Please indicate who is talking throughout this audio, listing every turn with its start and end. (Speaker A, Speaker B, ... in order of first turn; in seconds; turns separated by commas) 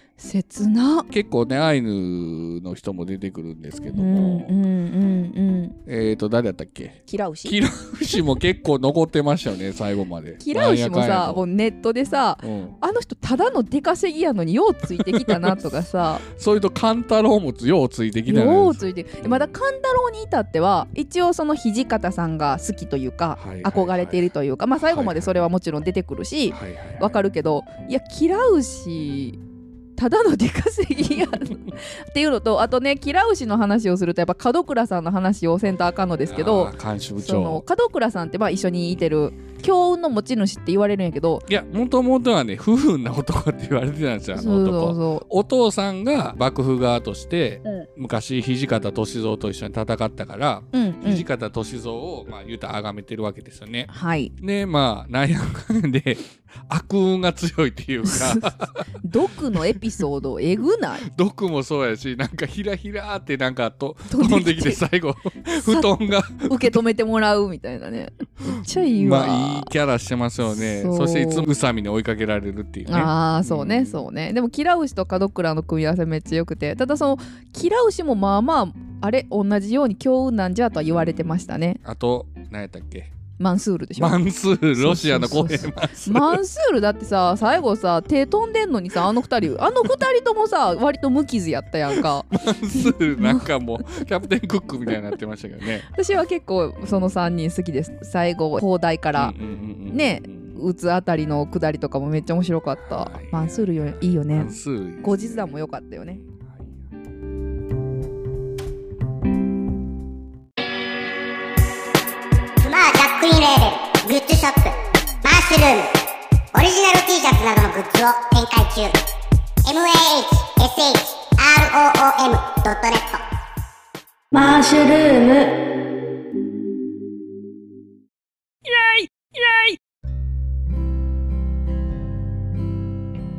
Speaker A: 0.2-1.1, Speaker B: 1.1-4.5, Speaker A: 3.9-5.8, Speaker B: 5.8-11.4, Speaker A: 7.1-7.5, Speaker A: 10.4-16.2, Speaker B: 12.4-12.7, Speaker B: 15.0-15.6, Speaker B: 16.3-19.5, Speaker A: 18.3-29.4, Speaker B: 23.4-24.3, Speaker B: 24.8-25.3, Speaker B: 26.5-27.1, Speaker A: 30.0-41.4, Speaker B: 36.3-37.6, Speaker B: 41.5-58.8, Speaker A: 44.4-45.2, Speaker A: 50.7-51.2, Speaker A: 53.9-54.3, Speaker A: 58.0-58.5, Speaker A: 59.0-61.0, Speaker B: 61.1-66.6, Speaker A: 64.1-64.8, Speaker A: 65.6-65.9, Speaker A: 66.4-69.7, Speaker B: 68.5-74.0, Speaker A: 70.5-71.5, Speaker A: 72.9-81.8, Speaker B: 80.9-83.1, Speaker A: 83.4-84.2, Speaker B: 84.0-86.4, Speaker A: 84.7-93.5, Speaker B: 92.3-95.9, Speaker A: 95.9-99.3, Speaker B: 96.8-97.1, Speaker B: 99.1-100.6, Speaker A: 99.9-104.5, Speaker B: 102.9-105.5, Speaker A: 105.0-106.2, Speaker B: 106.2-106.7, Speaker C: 112.6-115.9, Speaker C: 116.5-118.9, Speaker C: 119.6-123.2, Speaker D: 124.3-125.5, Speaker D: 128.7-129.8